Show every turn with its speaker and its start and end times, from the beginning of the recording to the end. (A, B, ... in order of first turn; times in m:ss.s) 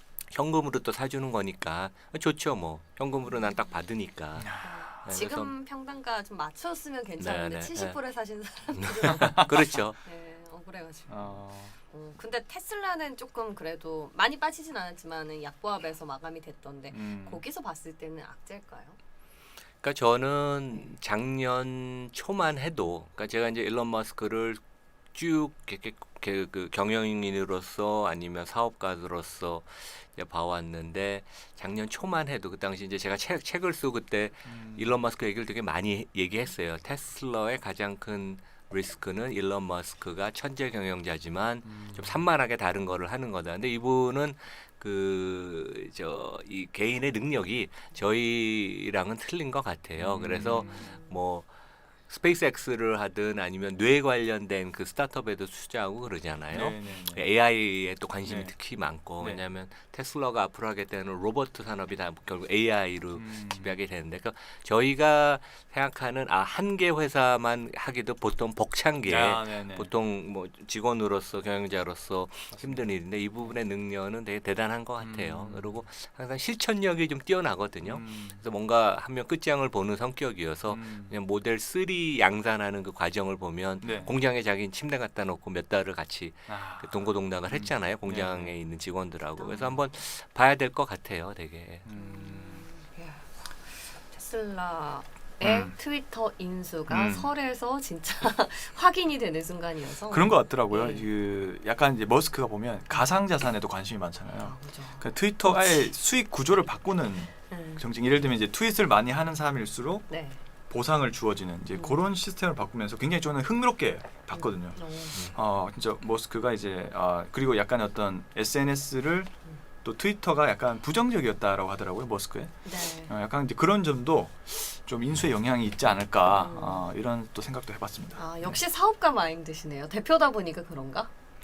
0:00.3-0:05.5 A
0:03.2-0:03.8 B
0:04.4-0:05.0 C
0:04.6-0:19.0 B
0:07.2-0:08.0 A
0:08.7-0:10.0 A
0:11.1-0:11.7 C
0:16.9-0:17.4 C
0:19.8-0:24.6 A
0:25.1-0:51.5 A
0:34.4-0:35.0 C
0:41.6-0:42.3 C
0:50.0-0:51.0 C
0:50.5-0:51.2 B
0:52.1-1:31.9 A
0:56.5-0:57.3 C
0:58.2-0:58.6 C
0:59.1-0:59.5 C
1:03.1-1:03.8 C
1:09.0-1:09.9 C
1:12.5-1:13.6 C
1:15.0-1:15.8 C
1:17.8-1:18.5 C
1:20.7-1:21.2 C
1:23.8-1:24.1 C
1:23.8-1:24.1 B
1:26.5-1:28.6 C
1:29.4-1:29.7 B
1:29.5-1:29.8 C
1:31.8-1:32.7 C
1:31.9-1:41.1 B
1:35.4-1:35.8 C
1:36.9-1:37.3 C
1:40.1-1:50.1 C
1:44.4-1:45.9 B
1:47.5-1:47.8 B
1:50.1-1:50.4 B
1:50.7-1:59.3 C
1:51.7-1:52.0 B
1:54.3-1:55.3 B
1:59.8-2:08.6 C
2:02.6-2:03.1 B
2:06.3-2:06.9 B
2:08.2-2:11.1 B